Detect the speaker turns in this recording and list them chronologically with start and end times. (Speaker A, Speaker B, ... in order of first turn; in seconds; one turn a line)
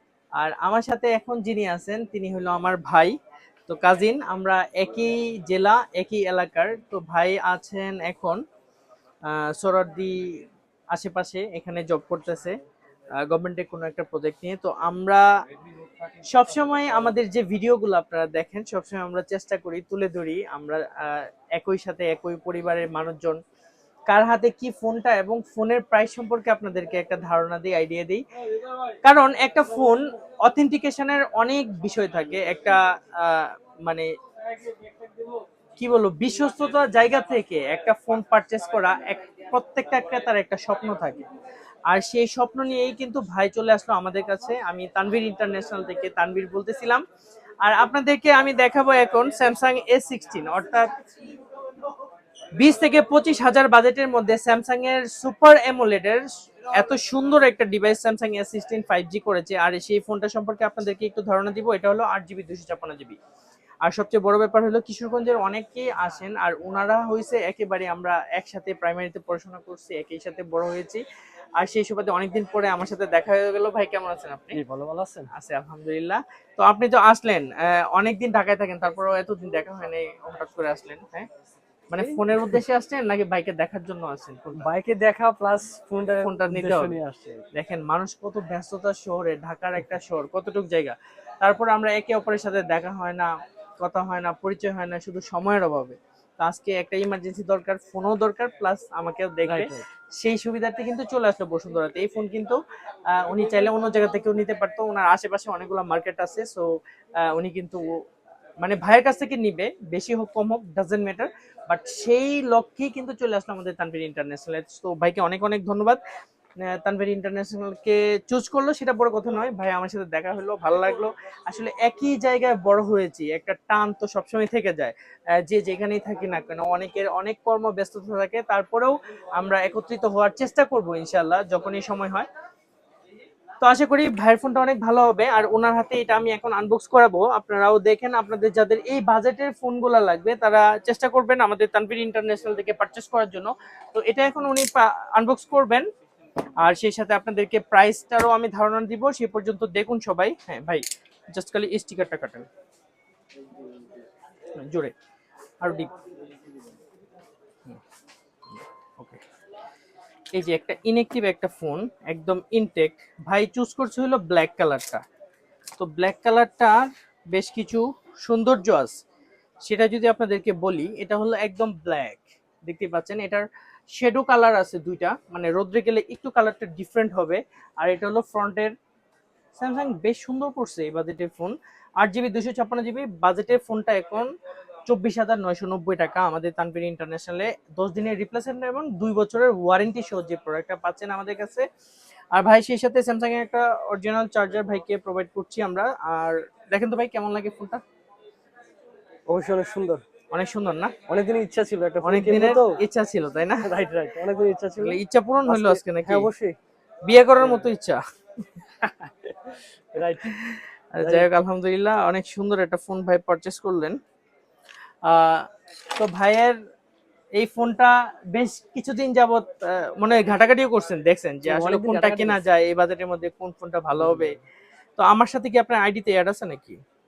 Speaker A: 0.4-3.1
Speaker A: 3.7-8.4
Speaker A: 9.3-10.4
Speaker A: 10.9-12.6
Speaker A: 13.2-15.2
Speaker A: 16.3-23.4
Speaker A: 24.1-28.2
Speaker A: 29.0-34.1
Speaker A: 35.8-41.2
Speaker A: 41.9-47.0
Speaker A: 47.6-50.9
Speaker A: 52.6-63.2
Speaker A: 63.8-71.0
Speaker A: 71.6-74.6
Speaker B: 74.5-75.3
Speaker A: 75.3-81.3
Speaker A: 81.9-84.7
Speaker B: 82.0-82.6
Speaker B: 84.5-87.5
Speaker A: 86.2-87.0
Speaker A: 87.5-102.6
Speaker B: 99.5-99.8
Speaker A: 103.1-106.7
Speaker A: 107.2-108.0
Speaker A: 108.6-116.0
Speaker A: 116.7-132.3
Speaker A: 133.6-145.8
Speaker A: 146.6-152.5
Speaker A: 154.6-154.9
Speaker A: 155.6-155.9
Speaker A: 158.5-159.2
Speaker A: 160.3-165.0
Speaker A: 165.8-168.9
Speaker A: 169.7-178.7
Speaker A: 179.6-184.3
Speaker A: 184.8-191.7
Speaker A: 192.3-197.8
Speaker B: 199.3-200.0
Speaker A: 200.3-200.9
Speaker B: 201.1-202.8
Speaker A: 202.0-203.7
Speaker B: 203.6-206.6
Speaker A: 204.8-206.3
Speaker A: 207.0-208.0
Speaker B: 207.4-207.7
Speaker B: 209.9-210.4
Speaker A: 210.2-214.0
Speaker B: 211.0-211.3
Speaker A: 215.0-216.6
Speaker A: 217.3-224.3
Speaker B: 221.4-222.4
Speaker B: 224.0-224.4
Speaker A: 225.0-226.8